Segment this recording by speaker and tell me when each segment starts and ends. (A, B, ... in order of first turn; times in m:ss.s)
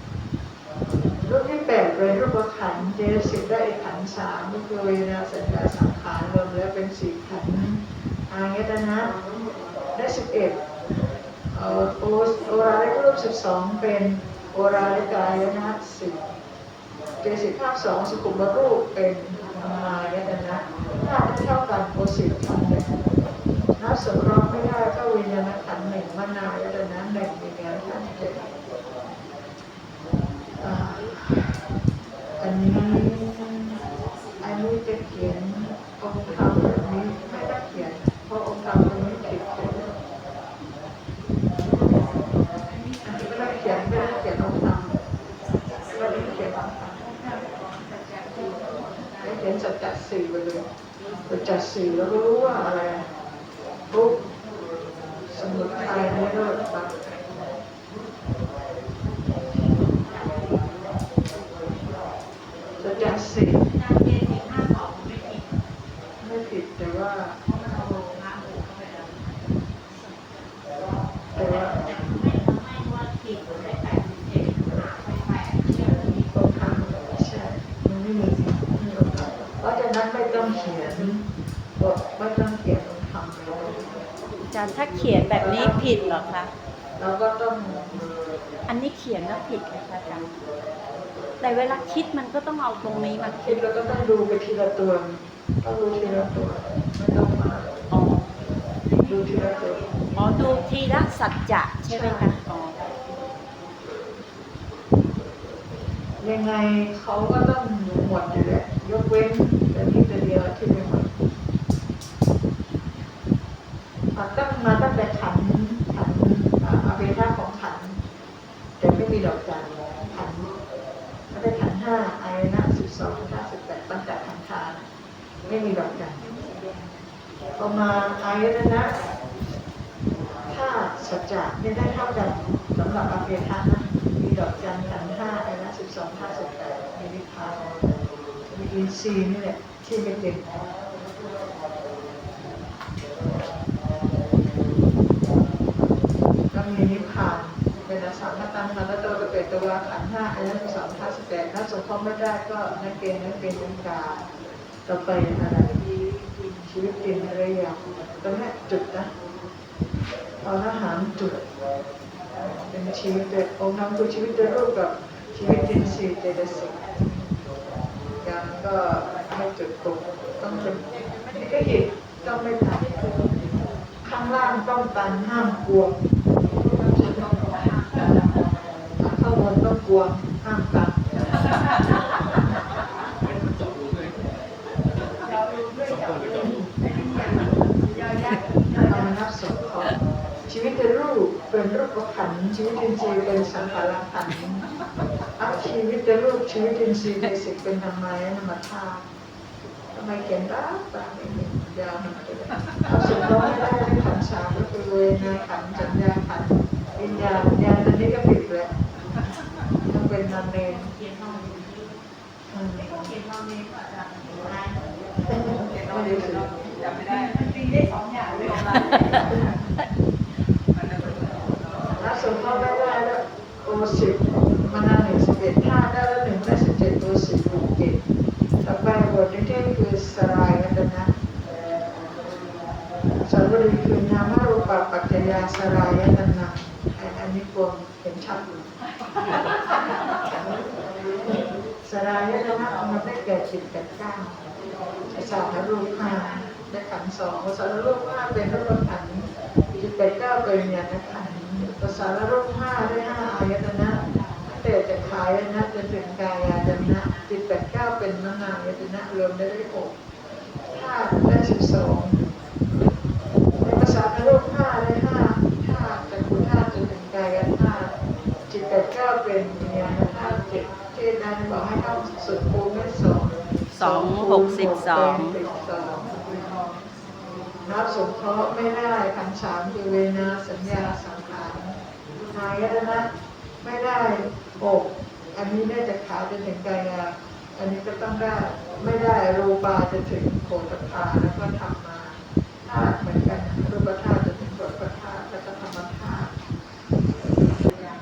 0:01.2-0:09.1 A
0:09.9-0:10.6 A
0:11.5-0:16.2 A
0:17.2-0:22.9 A
0:23.8-0:28.4 A
0:30.6-0:31.5 A
0:32.4-0:33.7 A
0:34.4-0:39.9 A
0:43.0-0:45.0 A
0:45.9-0:47.0 A
0:49.2-0:50.6 A
0:51.3-0:53.0 A
0:53.9-0:54.2 A
0:55.3-0:57.2 A
1:02.8-1:03.6 A
1:03.8-1:04.9 B
1:06.2-1:07.3 A
1:11.3-1:11.9 A
1:12.2-1:15.0 B
1:15.9-1:21.2 A
1:21.8-1:23.9 A
1:24.5-1:26.5 B
1:25.4-1:26.0 A
1:27.0-1:28.1 A
1:28.7-1:30.3 B
1:31.4-1:33.7 B
1:33.4-1:37.7 A
1:37.9-1:38.3 B
1:39.0-1:39.8 A
1:40.1-1:42.8 B
1:41.8-1:42.3 A
1:46.2-1:51.1 A
1:54.1-1:58.0 A
1:58.8-2:00.5 A
2:01.3-2:04.9 A
2:05.5-2:06.2 A
2:06.4-2:06.8 C
2:07.6-2:08.9 A
2:10.5-2:17.6 A
2:18.5-2:20.6 A
2:26.5-2:34.2 A
2:34.8-2:35.8 A
2:36.7-2:39.1 A
2:40.4-2:41.4 A
2:42.7-2:46.8 A
2:48.2-2:52.9 A
2:54.0-2:55.9 A
2:56.9-2:57.3 A
2:57.6-2:58.2 C
2:59.0-3:01.4 A
3:05.3-3:06.3 C
3:06.4-3:06.7 A
3:06.9-3:09.1 C
3:08.8-3:09.9 A
3:10.5-3:14.6 A
3:15.4-3:19.0 A
3:19.9-3:28.7 A
3:29.8-3:30.9 A
3:32.5-3:33.1 A
3:35.3-3:36.5 A
3:37.2-3:39.4 C
3:42.0-3:48.0 A
3:48.6-3:51.1 A
3:53.2-3:58.7 A
4:01.3-4:04.4 A
4:05.1-4:19.9 A
4:20.7-4:22.2 A
4:23.6-4:27.9 A
4:28.5-4:36.3 A
4:33.7-4:35.4 B
4:37.6-4:41.7 A
4:42.3-4:43.1 A
4:43.6-4:56.3 A